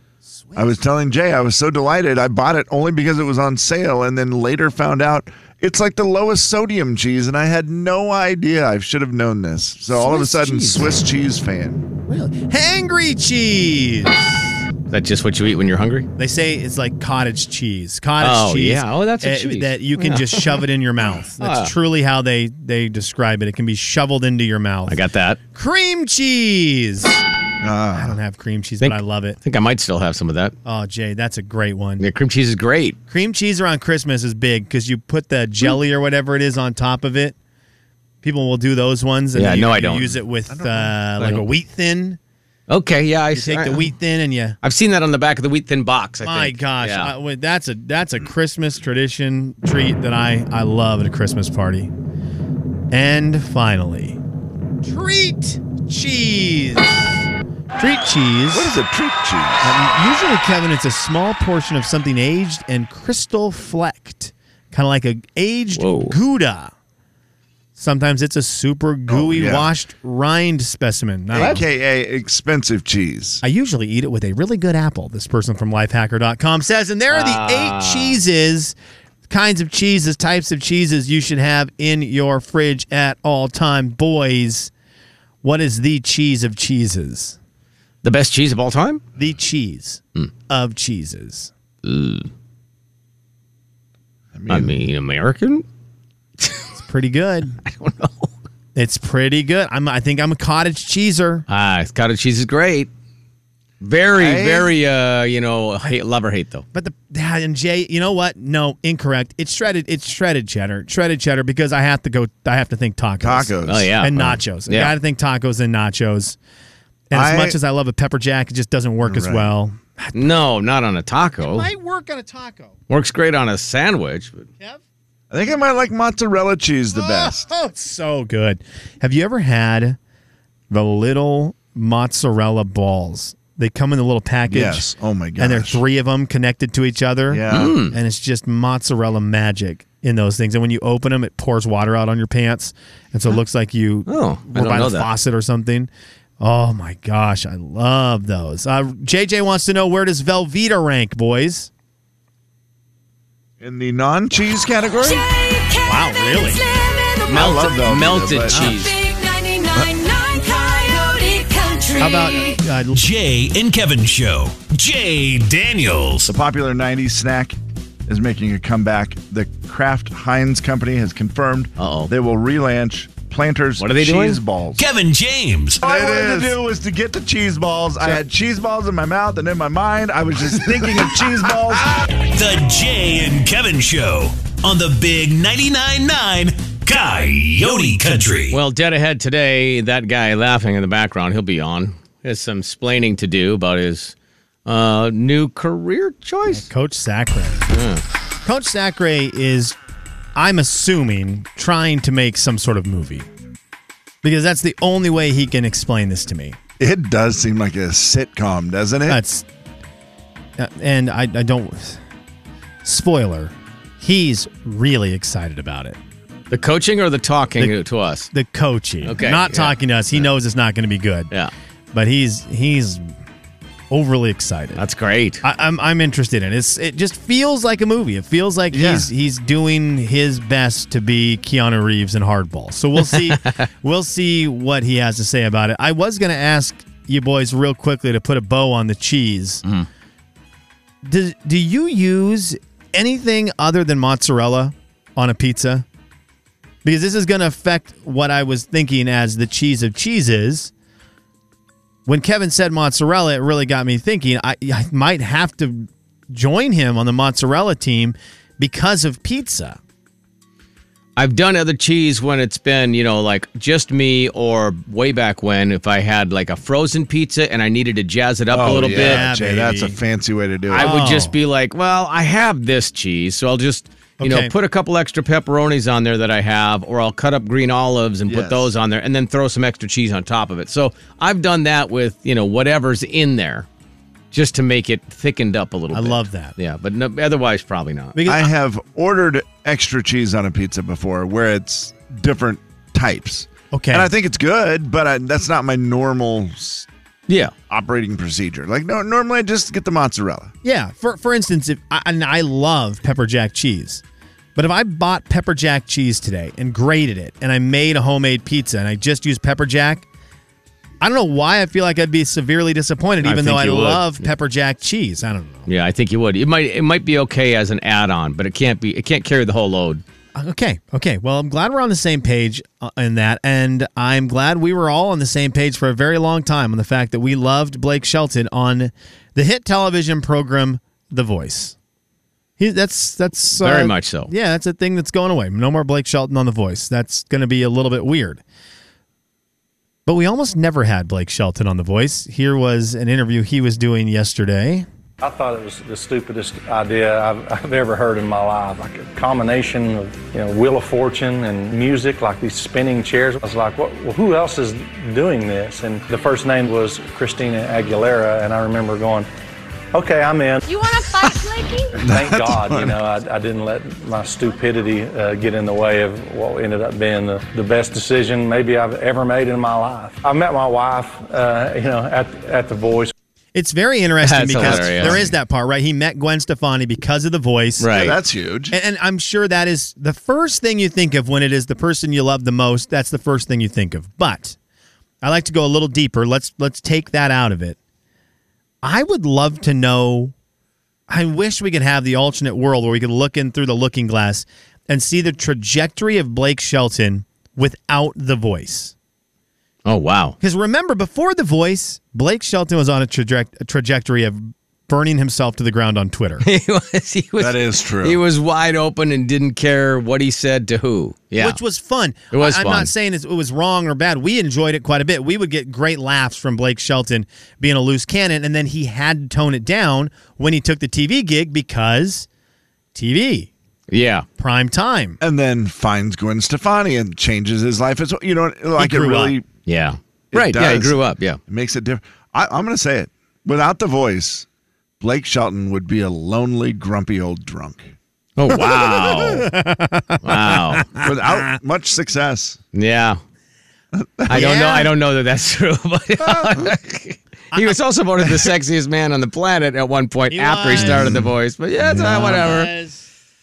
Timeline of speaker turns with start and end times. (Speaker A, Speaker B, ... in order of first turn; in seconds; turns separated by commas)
Speaker A: 0.3-0.8, Speaker B: 0.5-11.8, Speaker A: 9.9-10.9, Speaker A: 12.1-14.5, Speaker C: 14.9-16.1, Speaker A: 16.1-25.0, Speaker C: 18.2-20.6, Speaker C: 21.4-21.7, Speaker C: 24.9-25.4, Speaker A: 25.5-27.2, Speaker B: 27.6-28.1, Speaker A: 27.9-29.4, Speaker C: 28.8-30.5, Speaker A: 30.6-32.0, Speaker C: 32.0-33.0, Speaker A: 33.1-37.4, Speaker A: 38.2-42.2, Speaker C: 39.3-40.1, Speaker B: 40.5-41.0, Speaker C: 41.2-41.5, Speaker C: 42.7-43.9, Speaker A: 43.3-44.5, Speaker C: 44.6-47.1, Speaker A: 46.2-51.9, Speaker A: 52.9-54.2, Speaker A: 54.8-57.2, Speaker A: 57.8-58.8, Speaker B: 58.5-59.8, Speaker A: 59.6-66.7, Speaker C: 65.7-66.2, Speaker A: 67.8-71.6, Speaker B: 69.1-69.7, Speaker B: 71.3-73.4, Speaker C: 71.4-71.6, Speaker A: 73.4-78.7, Speaker C: 77.1-78.2, Speaker A: 79.3-84.7, Speaker A: 85.4-87.4, Speaker C: 88.0-89.0, Speaker A: 89.2-91.5, Speaker C: 91.8-92.3, Speaker B: 94.3-94.8, Speaker C: 94.5-95.6, Speaker A: 96.8-97.6, Speaker C: 97.6-98.3, Speaker A: 98.8-101.4, Speaker C: 101.5-102.9, Speaker C: 103.8-106.6, Speaker B: 104.1-104.7, Speaker A: 106.7-116.4, Speaker B: 113.2-113.9, Speaker C: 113.7-114.9, Speaker A: 117.1-120.3, Speaker B: 117.1-117.6, Speaker B: 119.0-119.5, Speaker C: 120.1-121.7, Speaker A: 121.4-122.7, Speaker C: 122.9-124.5, Speaker B: 125.3-127.5, Speaker A: 126.9-130.0, Speaker A: 130.7-151.7, Speaker B: 134.5-135.8, Speaker B: 137.3-137.8, Speaker C: 137.5-137.9, Speaker C: 144.1-145.1, Speaker B: 153.6-155.2, Speaker D: 155.0-157.8, Speaker A: 155.8-156.6, Speaker B: 157.3-158.7, Speaker C: 157.3-158.9, Speaker A: 158.5-158.8, Speaker D: 158.7-162.6, Speaker A: 162.0-162.9, Speaker E: 162.9-166.3, Speaker B: 166.3-174.8, Speaker C: 171.8-172.1, Speaker C: 173.8-174.4, Speaker E: 174.8-175.9, Speaker B: 175.8-182.0, Speaker E: 182.2-188.6, Speaker C: 188.5-194.1, Speaker C: 194.7-196.7, Speaker A: 196.5-197.7, Speaker C: 197.7-198.0, Speaker A: 198.4-199.8, Speaker A: 200.3-203.3, Speaker A: 204.2-206.6, Speaker B: 206.8-209.2, Speaker A: 209.1-209.4, Speaker A: 210.6-212.0, Speaker A: 212.8-216.0, Speaker C: 216.5-218.3, Speaker A: 218.3-221.3, Speaker C: 219.0-220.3, Speaker A: 221.9-223.1, Speaker A: 223.9-224.8, Speaker C: 224.8-225.4, Speaker A: 225.4-239.6, Speaker B: 228.7-229.1, Speaker C: 233.1-233.6, Speaker A: 241.0-245.8, Speaker A: 246.8-250.7, Speaker A: 252.1-259.8, Speaker C: 261.2-269.2, Speaker B: 268.5-271.0, Speaker A: 268.8-270.0, Speaker C: 270.7-283.7, Speaker A: 270.7-271.3, Speaker A: 274.2-274.5, Speaker B: 278.3-278.7, Speaker C: 284.3-288.1, Speaker A: 285.9-286.5, Speaker A: 288.1-288.5, Speaker B: 288.2-296.9, Speaker A: 293.7-294.1, Speaker C: 297.3-297.5, Speaker B: 297.7-300.5, Speaker A: 300.6-304.0, Speaker A: 304.6-310.1, Speaker A: 311.0-315.7, Speaker C: 313.2-314.2, Speaker C: 315.7-320.0, Speaker A: 320.3-331.8, Speaker A: 332.6-338.4, Speaker C: 333.6-334.3, Speaker A: 340.1-344.9, Speaker F: 345.2-359.3, Speaker F: 359.9-360.7, Speaker D: 360.6-362.0, Speaker F: 362.0-373.1, Speaker B: 362.0-363.0, Speaker A: 373.5-377.9, Speaker C: 374.2-375.2, Speaker B: 374.6-375.3, Speaker C: 377.8-378.1, Speaker B: 377.9-378.7, Speaker A: 378.7-384.6, Speaker A: 385.2-387.8, Speaker A: 388.8-390.3, Speaker A: 391.1-398.9, Speaker C: 399.9-400.4, Speaker A: 400.4-406.4, Speaker C: 406.4-411.6, Speaker B: 407.4-408.2, Speaker A: 411.4-422.3, Speaker C: 412.3-412.9, Speaker A: 422.9-423.5, Speaker C: 423.9-424.2, Speaker A: 424.4-425.2, Speaker B: 425.2-429.5, Speaker A: 428.8-429.4, Speaker C: 429.6-431.4, Speaker B: 430.3-434.4, Speaker B: 435.0-437.9, Speaker C: 438.4-439.5, Speaker A: 438.9-441.6, Speaker C: 440.2-440.9, Speaker B: 441.0-442.6, Speaker C: 442.7-443.2, Speaker B: 443.9-444.6, Speaker C: 444.3-452.7, Speaker A: 444.3-444.9, Speaker A: 450.3-451.2, Speaker B: 450.7-452.5, Speaker A: 452.0-453.0